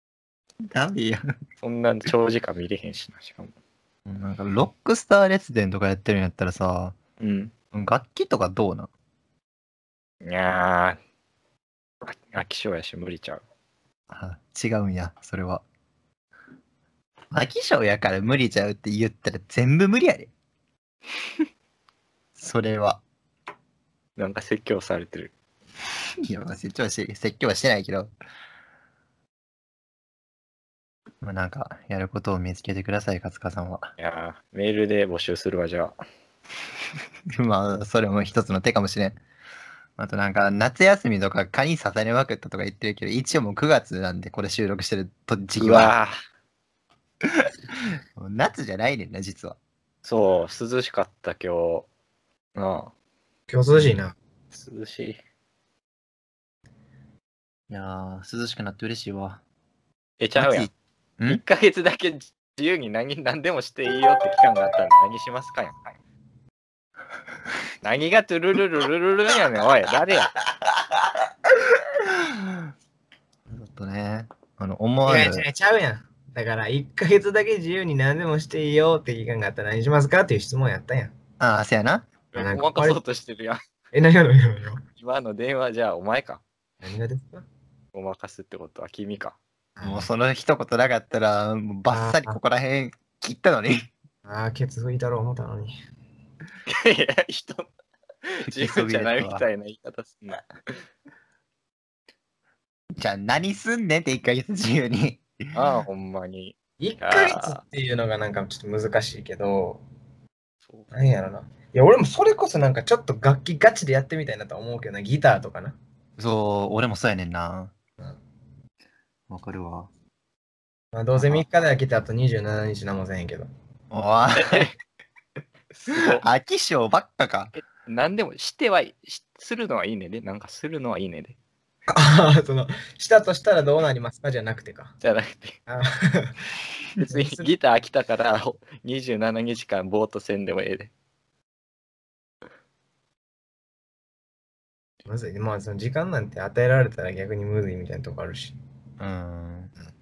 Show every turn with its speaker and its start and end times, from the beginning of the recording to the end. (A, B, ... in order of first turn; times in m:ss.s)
0:00.6-0:01.2 A
0:01.6-0:03.5 B
0:04.0-0:07.0 A
0:07.2-0:07.5 B
0:07.7-0:08.9 A
0:10.2-0:11.0 B
0:12.0-0:13.4 B
0:14.1-0:15.6 A
0:17.3-0:20.3 A
0:22.4-0:23.0 A
0:24.2-0:25.3 B
0:26.2-0:28.1 A
0:31.2-0:33.9 A
0:34.0-0:36.0 B
0:37.3-0:39.2 A
0:40.0-0:45.9 A
0:45.6-0:46.1 B
0:48.2-0:49.6 A
0:50.0-0:51.9 B
0:52.5-0:52.9 B
0:53.5-0:54.2 C
0:54.5-0:55.2 B
0:57.7-0:59.4 A
1:00.2-1:00.7 B
1:00.4-1:01.4 A
1:01.2-1:05.7 B
1:07.8-1:10.3 B
1:12.0-1:12.6 A
1:13.5-1:15.4 A
1:15.0-1:21.1 C
1:21.4-1:22.1 A
1:22.3-1:23.6 B
1:22.4-1:23.0 C
1:23.9-1:24.8 C
1:25.0-1:26.4 B
1:26.8-1:27.4 C
1:27.9-1:29.4 B
1:29.8-1:30.1 C
1:29.8-1:33.9 A
1:31.9-1:32.4 C
1:34.2-1:35.7 C
1:36.6-1:37.7 B
1:38.2-1:40.5 B
1:38.5-1:39.4 A
1:43.0-1:45.2 A
1:45.5-1:47.6 B
1:46.8-1:49.8 C
1:50.9-1:55.8 C
1:56.2-1:57.7 A
1:59.3-1:59.9 A
2:00.9-2:03.5 C
2:01.2-2:01.4 A
2:03.9-2:04.7 A
2:04.4-2:04.7 B
2:05.7-2:06.2 B
2:05.9-2:07.5 A
2:07.6-2:11.4 B
2:11.9-2:15.0 C
2:15.0-2:15.6 B
2:15.7-2:16.4 C
2:17.0-2:20.9 B
2:17.0-2:17.5 C
2:25.0-2:28.6 C
2:29.0-2:29.7 A